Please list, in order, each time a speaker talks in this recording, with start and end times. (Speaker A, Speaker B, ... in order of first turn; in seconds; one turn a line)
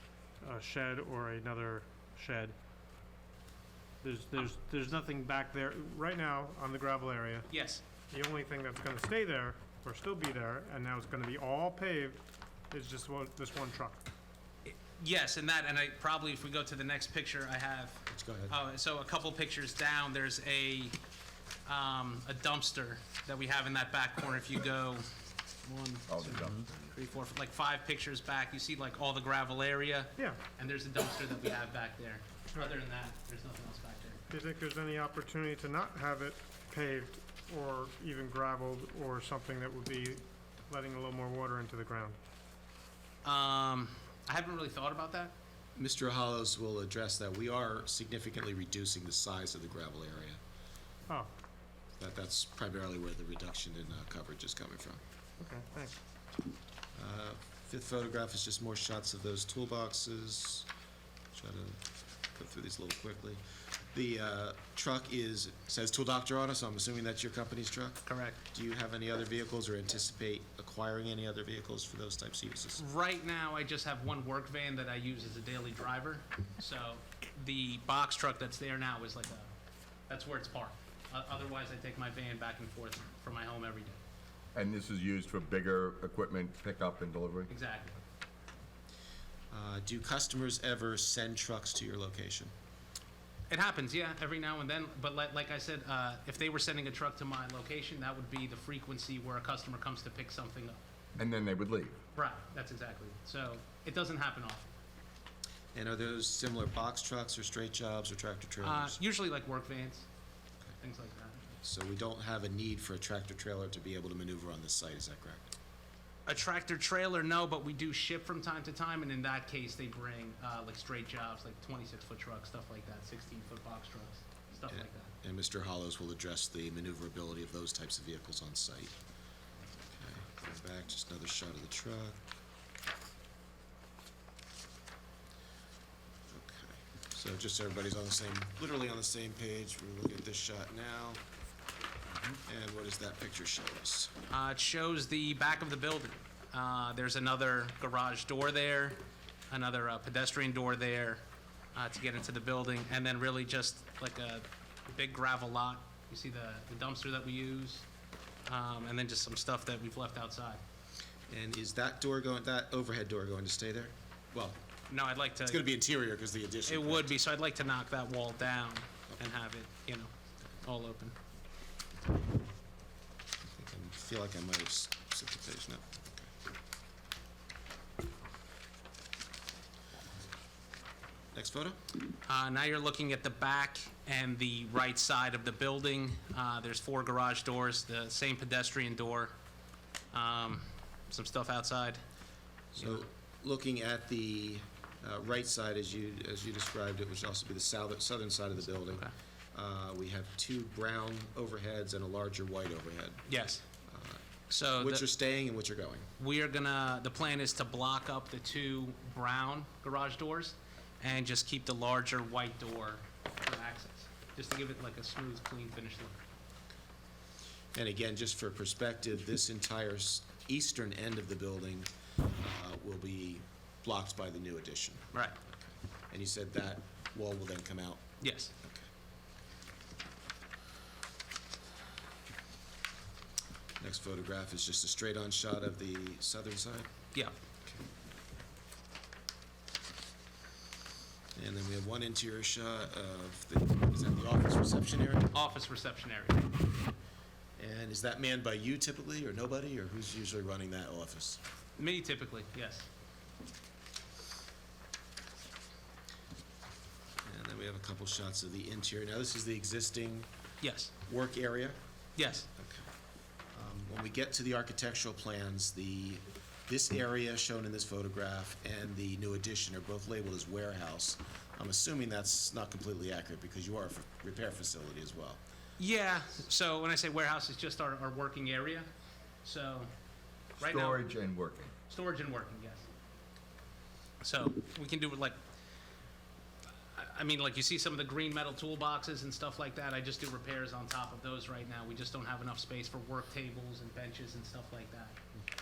Speaker A: 0.4-2.5
Speaker A: 4.0-7.5
Speaker B: 7.5-7.8
Speaker A: 8.1-14.1
Speaker B: 14.7-21.0
Speaker C: 18.1-18.6
Speaker B: 21.7-25.1
Speaker B: 25.6-34.2
Speaker D: 26.1-26.7
Speaker A: 34.3-42.2
Speaker B: 43.2-45.3
Speaker C: 45.8-50.4
Speaker C: 52.0-55.0
Speaker A: 55.4-56.0
Speaker C: 57.0-60.7
Speaker C: 61.3-61.8
Speaker C: 62.3-63.4
Speaker C: 63.9-72.8
Speaker B: 68.0-68.4
Speaker B: 72.8-79.5
Speaker B: 80.1-84.0
Speaker D: 84.5-87.5
Speaker B: 87.5-88.0
Speaker C: 89.5-92.5
Speaker B: 93.5-100.8
Speaker D: 101.2-102.0
Speaker B: 102.1-104.7
Speaker C: 105.7-109.0
Speaker B: 108.6-110.1
Speaker B: 110.8-111.4
Speaker C: 111.6-115.5
Speaker B: 116.3-125.1
Speaker C: 124.7-129.0
Speaker C: 129.9-132.3
Speaker C: 136.3-141.2
Speaker C: 142.4-144.2
Speaker B: 144.3-151.2
Speaker B: 151.7-157.8
Speaker B: 158.5-160.6
Speaker C: 161.3-164.6
Speaker B: 164.9-165.6
Speaker C: 165.4-167.1
Speaker B: 166.7-171.2
Speaker C: 173.5-176.3
Speaker C: 181.3-181.8
Speaker B: 182.2-189.3
Speaker B: 190.1-192.0
Speaker C: 192.7-203.2
Speaker B: 192.8-193.0
Speaker B: 203.3-203.7
Speaker C: 203.8-206.1
Speaker B: 204.5-205.1
Speaker B: 206.2-216.2
Speaker C: 217.7-225.1
Speaker B: 225.1-225.4
Speaker C: 226.1-228.0
Speaker B: 228.2-228.5
Speaker C: 228.6-228.9
Speaker C: 233.8-236.9
Speaker C: 241.3-245.3
Speaker B: 245.3-246.6
Speaker C: 247.6-251.4
Speaker B: 251.8-252.9
Speaker C: 257.2-260.3
Speaker B: 260.6-260.9
Speaker C: 261.1-261.8
Speaker B: 262.2-262.5
Speaker C: 262.6-262.9
Speaker C: 263.5-275.4
Speaker B: 275.8-278.9
Speaker B: 279.4-279.9
Speaker B: 280.6-281.1
Speaker D: 280.6-281.7
Speaker B: 281.9-282.9
Speaker B: 284.2-285.4
Speaker B: 286.9-295.2